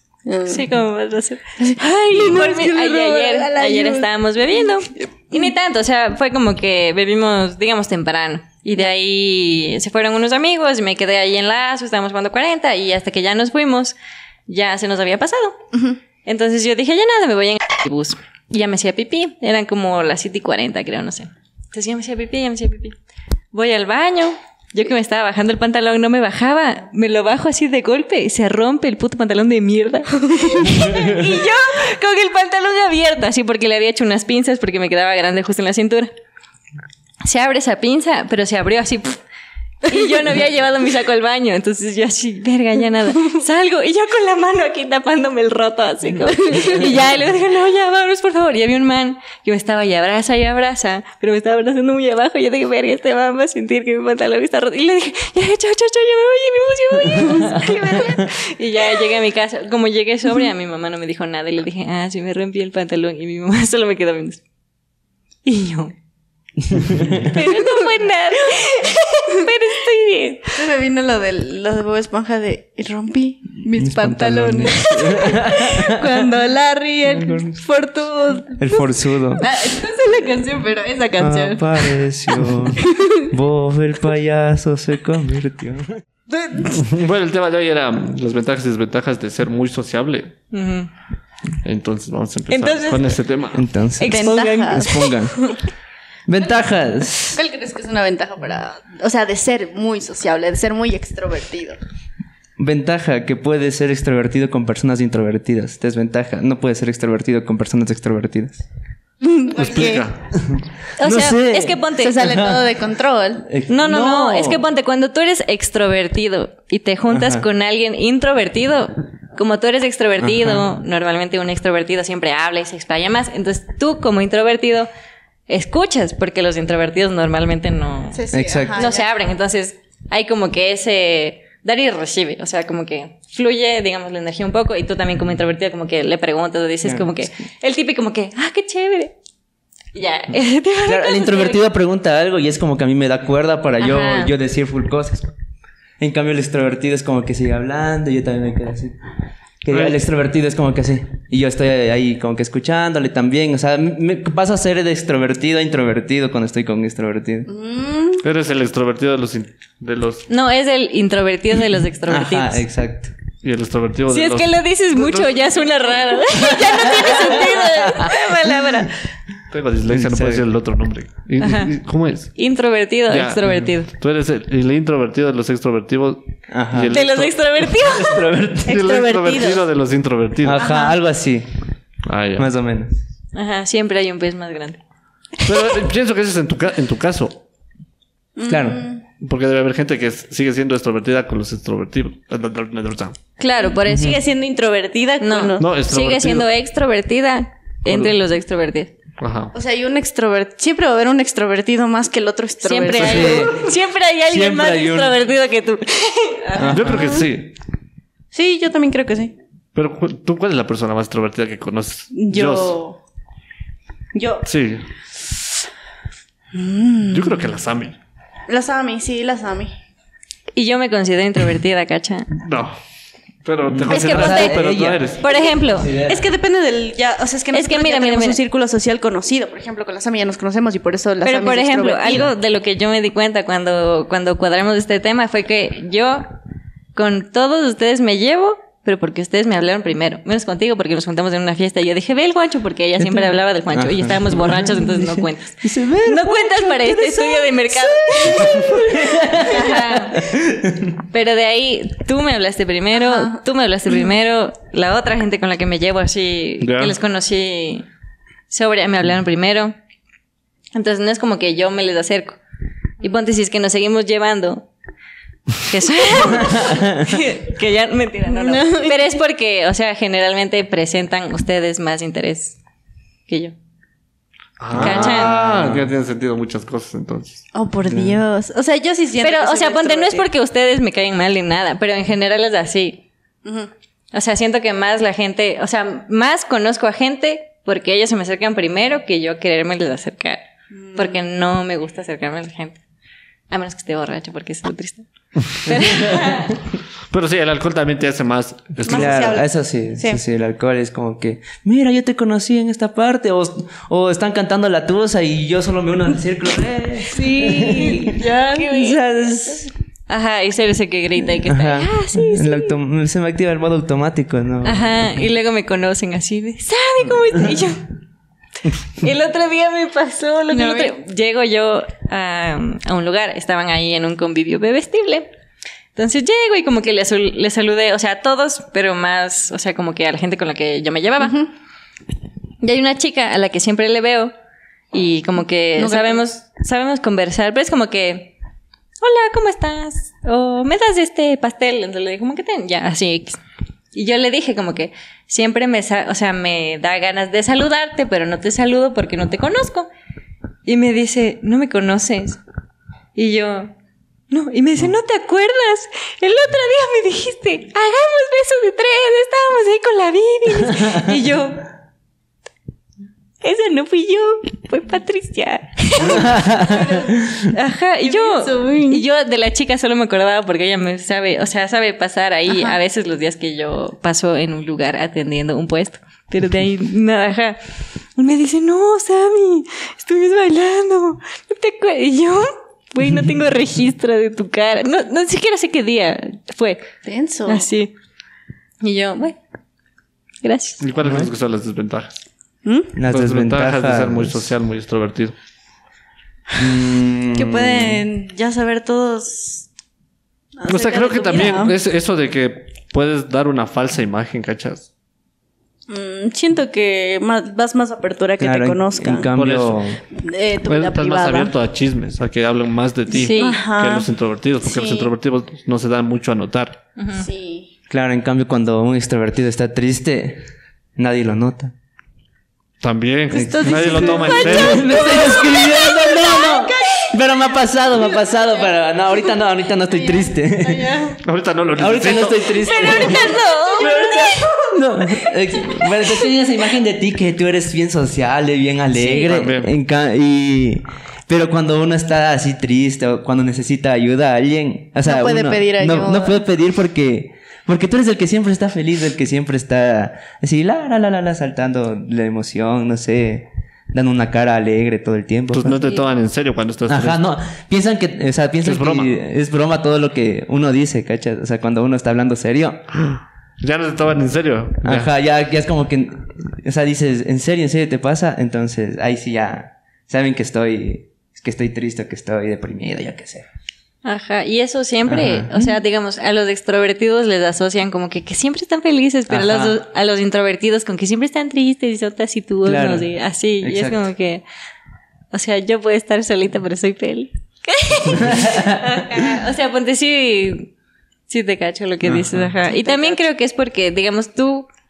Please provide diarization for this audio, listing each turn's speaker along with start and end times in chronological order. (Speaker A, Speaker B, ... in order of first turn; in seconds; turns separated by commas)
Speaker A: 0.3-0.7, Speaker B: 0.5-15.6, Speaker A: 1.6-5.5, Speaker A: 15.7-16.0, Speaker B: 16.2-23.0, Speaker B: 23.5-36.1, Speaker A: 30.3-30.8, Speaker C: 30.9-31.2, Speaker B: 37.2-39.2, Speaker B: 39.8-64.4, Speaker A: 46.5-46.8, Speaker C: 57.4-58.2, Speaker B: 65.4-66.0, Speaker C: 66.6-67.3, Speaker B: 67.2-70.5, Speaker A: 67.4-67.9, Speaker A: 70.5-83.3, Speaker C: 73.8-76.3, Speaker C: 77.1-77.6, Speaker C: 78.6-79.5, Speaker C: 81.2-86.0, Speaker A: 86.3-86.8, Speaker D: 86.7-90.3, Speaker B: 90.5-90.9, Speaker D: 91.6-93.7, Speaker B: 92.5-93.1, Speaker C: 93.5-95.5, Speaker B: 94.0-95.1, Speaker A: 94.0-95.6, Speaker C: 96.3-97.4, Speaker A: 97.3-101.8, Speaker C: 102.6-108.7, Speaker A: 109.2-110.1, Speaker D: 109.5-110.4, Speaker C: 110.3-112.7, Speaker B: 111.0-112.3, Speaker A: 111.9-113.5, Speaker C: 113.4-114.6, Speaker B: 113.7-124.9, Speaker C: 117.1-117.5, Speaker C: 120.2-120.7, Speaker B: 125.5-139.2, Speaker A: 128.1-129.1, Speaker C: 128.3-128.9, Speaker C: 136.8-137.2, Speaker B: 139.9-141.6, Speaker C: 140.8-145.3, Speaker B: 143.8-144.3, Speaker C: 146.0-148.9, Speaker C: 149.6-157.5, Speaker D: 149.7-150.0, Speaker A: 157.5-158.2, Speaker D: 158.2-160.3, Speaker B: 160.3-162.6, Speaker C: 162.1-163.1, Speaker D: 163.4-165.5, Speaker B: 164.1-168.9, Speaker C: 166.5-168.1, Speaker A: 166.8-167.5, Speaker D: 169.5-172.3, Speaker C: 169.9-170.4, Speaker B: 171.4-171.8, Speaker B: 172.4-173.9, Speaker D: 173.1-177.7, Speaker C: 176.5-177.0, Speaker B: 176.9-178.2, Speaker C: 177.8-178.8, Speaker D: 178.7-180.7, Speaker A: 178.7-179.6, Speaker C: 180.4-181.5, Speaker A: 180.6-180.9, Speaker D: 182.1-182.5, Speaker C: 182.4-183.0, Speaker B: 183.3-184.8, Speaker D: 185.4-187.4, Speaker A: 188.4-189.0, Speaker C: 188.4-188.8, Speaker D: 189.2-193.2, Speaker B: 193.4-194.2, Speaker A: 193.5-195.7, Speaker C: 193.9-194.2, Speaker B: 195.2-198.9, Speaker D: 195.6-196.5, Speaker D: 197.9-198.2, Speaker D: 199.2-199.5, Speaker A: 199.5-203.6, Speaker B: 202.6-206.8, Speaker C: 202.9-203.7, Speaker C: 204.3-205.2, Speaker C: 206.6-207.3, Speaker A: 206.6-207.2, Speaker D: 206.7-207.5, Speaker A: 208.3-209.3, Speaker D: 209.8-212.8, Speaker A: 212.1-213.0, Speaker A: 214.1-214.4, Speaker D: 214.4-214.9, Speaker A: 216.5-217.5, Speaker D: 217.1-218.0, Speaker A: 218.5-219.7, Speaker B: 220.6-222.3, Speaker D: 222.4-222.8, Speaker D: 223.4-225.2, Speaker C: 223.7-225.2, Speaker B: 223.9-224.6, Speaker B: 225.2-225.9, Speaker A: 225.2-232.3, Speaker C: 225.7-226.2, Speaker B: 227.5-228.4, Speaker B: 231.2-236.3, Speaker B: 236.9-250.3, Speaker C: 243.7-250.9, Speaker A: 248.2-249.0, Speaker B: 251.1-257.9, Speaker A: 253.0-253.4, Speaker D: 256.6-257.0, Speaker B: 258.5-259.7, Speaker B: 260.7-262.4, Speaker B: 263.0-264.7, Speaker B: 265.6-272.6, Speaker C: 266.4-267.1, Speaker A: 268.3-269.2, Speaker B: 273.3-273.6, Speaker D: 274.6-277.4, Speaker C: 274.7-275.9, Speaker B: 274.8-275.3, Speaker A: 277.5-280.3, Speaker C: 277.9-278.2, Speaker B: 279.2-283.0, Speaker A: 283.4-283.7, Speaker B: 284.1-290.4, Speaker A: 290.7-291.2, Speaker B: 290.9-292.8, Speaker B: 293.5-296.6, Speaker C: 295.8-296.3, Speaker D: 297.1-299.3, Speaker A: 298.9-300.2, Speaker C: 298.9-309.7, Speaker B: 307.1-309.3, Speaker A: 307.2-308.7, Speaker B: 310.1-312.8, Speaker C: 311.2-315.1, Speaker B: 314.6-317.9, Speaker B: 319.0-325.3, Speaker A: 320.5-320.9, Speaker B: 325.9-331.4, Speaker A: 331.2-331.5, Speaker B: 332.6-334.3, Speaker B: 334.9-338.4, Speaker A: 335.8-336.2, Speaker B: 339.0-343.4, Speaker B: 343.9-349.9, Speaker B: 350.6-352.4, Speaker B: 353.1-353.7, Speaker B: 354.3-361.6, Speaker B: 363.4-377.6, Speaker C: 366.0-366.9, Speaker A: 366.6-367.3, Speaker A: 368.0-369.0, Speaker A: 372.5-372.8, Speaker B: 378.2-386.9, Speaker A: 387.1-387.7, Speaker B: 387.5-387.9, Speaker B: 388.8-389.4, Speaker B: 390.4-390.8, Speaker D: 390.8-392.2, Speaker C: 391.0-391.3, Speaker A: 392.6-392.9, Speaker C: 392.9-394.5, Speaker D: 393.1-395.3, Speaker C: 396.6-398.1, Speaker A: 397.3-399.7, Speaker A: 400.6-401.7, Speaker D: 400.7-404.9, Speaker A: 405.9-409.3, Speaker C: 408.4-410.0, Speaker D: 409.3-409.9, Speaker A: 410.1-411.5, Speaker D: 410.6-416.8, Speaker B: 413.1-413.6, Speaker A: 413.2-414.1, Speaker A: 414.6-415.1, Speaker B: 417.0-417.3, Speaker A: 417.2-417.7, Speaker C: 417.9-420.4, Speaker C: 421.0-421.7, Speaker D: 422.8-425.1, Speaker C: 423.3-431.0, Speaker A: 423.4-427.2, Speaker A: 427.8-429.3, Speaker A: 429.9-431.2, Speaker D: 431.2-432.6, Speaker C: 431.8-455.8, Speaker A: 432.6-436.2, Speaker B: 432.6-434.5, Speaker D: 439.2-439.7, Speaker A: 445.1-446.4, Speaker D: 455.5-457.2, Speaker C: 456.9-462.9, Speaker D: 458.6-459.1, Speaker D: 463.0-465.1, Speaker C: 464.8-473.5, Speaker B: 474.0-484.4, Speaker C: 475.1-475.7, Speaker C: 479.3-479.8, Speaker C: 482.6-483.1, Speaker C: 483.6-484.1, Speaker B: 485.3-490.7, Speaker C: 488.1-489.0, Speaker B: 491.3-494.7, Speaker C: 492.0-492.5, Speaker A: 492.7-493.2